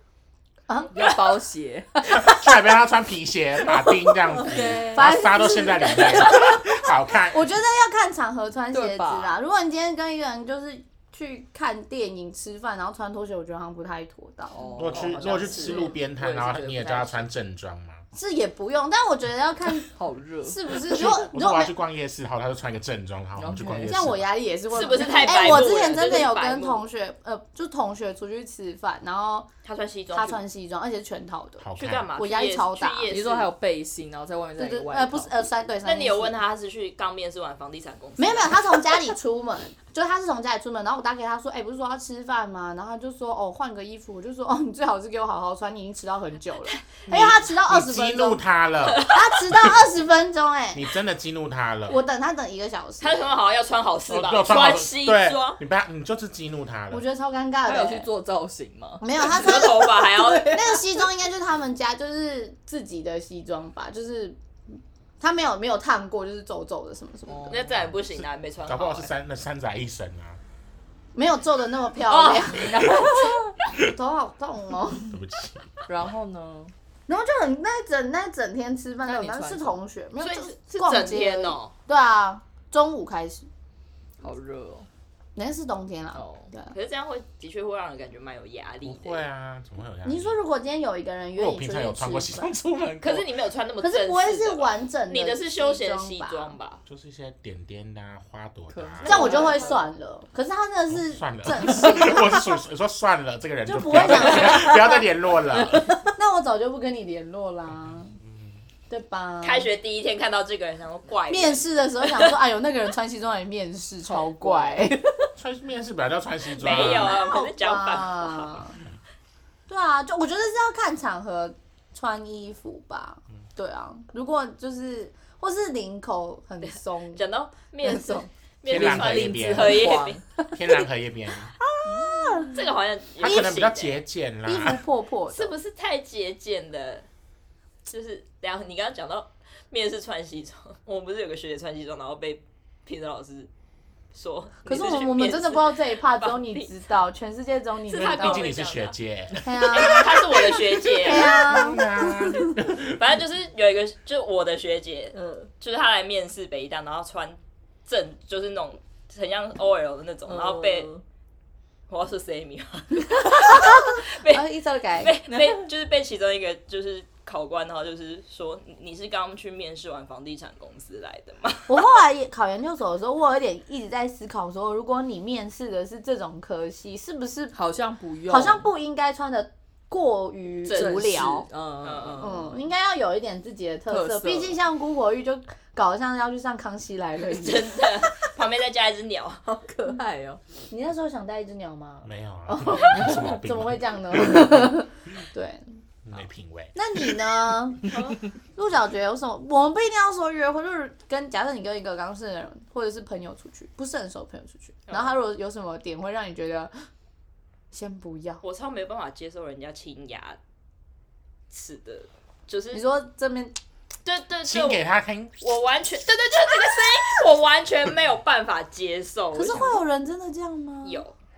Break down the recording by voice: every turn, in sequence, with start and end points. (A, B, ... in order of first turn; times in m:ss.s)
0:00.7-0:01.2 A
0:00.9-0:02.3 B
0:02.0-0:02.4 A
0:02.2-0:07.4 C
0:04.2-0:05.2 B
0:04.9-0:15.0 A
0:08.7-0:09.4 B
0:14.5-0:17.3 B
0:14.8-0:18.0 C
0:14.9-0:15.9 D
0:18.1-0:19.9 A
0:19.8-0:21.1 B
0:20.4-0:21.7 A
0:20.9-0:24.2 C
0:23.4-0:24.1 B
0:23.9-0:29.5 A
0:24.7-0:26.8 D
0:29.6-0:30.4 D
0:30.1-0:33.2 A
0:31.6-0:32.1 C
0:31.8-0:33.5 D
0:33.1-0:35.5 B
0:34.6-0:36.4 A
0:35.8-0:39.0 D
0:38.2-0:48.4 A
0:47.1-0:49.9 C
0:48.9-0:49.3 D
0:49.0-0:50.8 A
0:50.7-0:52.0 C
0:51.9-0:53.3 A
0:53.0-0:55.6 D
0:54.1-0:57.0 C
0:56.9-0:58.1 A
0:57.6-0:59.4 B
0:59.0-1:04.4 A
0:59.2-1:00.6 D
0:59.9-1:00.8 B
1:05.2-1:07.6 A
1:07.3-1:07.9 B
1:07.5-1:09.1 D
1:08.7-1:10.4 C
1:11.2-1:15.1 A
1:12.1-1:12.7 D
1:12.2-1:13.4 B
1:15.1-1:16.0 C
1:15.9-1:16.7 B
1:17.1-1:23.5 A
1:19.0-1:19.8 B
1:20.2-1:21.7 D
1:24.2-1:24.9 B
1:25.4-1:26.7 A
1:26.1-1:26.5 B
1:26.7-1:29.2 D
1:28.8-1:30.4 C
1:30.0-1:32.5 A
1:31.4-1:33.3 C
1:33.0-1:36.8 D
1:33.8-1:36.6 A
1:36.9-1:39.4 C
1:38.7-1:39.9 B
1:39.0-1:39.8 D
1:39.0-1:42.6 A
1:40.9-1:46.0 C
1:43.6-1:45.1 A
1:46.1-1:48.2 A
1:47.7-1:48.6 C
1:48.9-1:49.7 A
1:49.4-1:52.3 D
1:51.3-1:55.0 A
1:54.0-1:55.0 B
1:55.4-1:57.2 C
1:56.6-1:58.6 D
1:56.6-1:58.8 A
1:59.7-2:07.2 A
2:06.6-2:10.2 D
2:07.8-2:08.3 A
2:08.7-2:09.9 C
2:08.7-2:10.2 B
2:10.5-2:11.5 C
2:11.6-2:12.6 A
2:11.9-2:12.6 B
2:12.5-2:14.0 D
2:13.2-2:14.8 C
2:14.4-2:15.6 A
2:15.3-2:17.1 D
2:17.9-2:23.5 D
2:24.1-2:26.8 D
2:24.7-2:28.5 A
2:27.9-2:28.9 D
2:27.9-2:29.5 C
2:29.4-2:32.6 A
2:29.6-2:31.4 D
2:31.1-2:33.0 C
2:32.8-2:40.9 D
2:35.1-2:35.5 B
2:40.3-2:41.0 B
2:41.9-2:44.4 D
2:43.1-2:45.1 A
2:45.0-2:51.9 D
2:45.3-2:45.6 B
2:51.7-2:57.6 A
2:57.5-2:58.7 B
2:58.3-3:01.5 A
3:00.6-3:01.3 D
3:00.7-3:02.6 B
3:01.8-3:02.4 D
3:02.2-3:07.7 A
3:03.9-3:04.6 B
3:07.3-3:09.4 D
3:09.5-3:10.4 B
3:10.7-3:15.8 A
3:12.0-3:14.7 C
3:16.0-3:16.8 C
3:16.8-3:17.9 A
3:17.9-3:18.2 D
3:18.6-3:26.7 A
3:24.9-3:25.2 D
3:27.7-3:28.4 A
3:28.4-3:30.4 D
3:31.5-3:32.8 D
3:32.7-3:33.6 A
3:34.0-3:34.8 D
3:34.4-3:35.4 C
3:35.4-3:39.8 D
3:39.3-3:41.0 A
3:40.8-3:41.2 D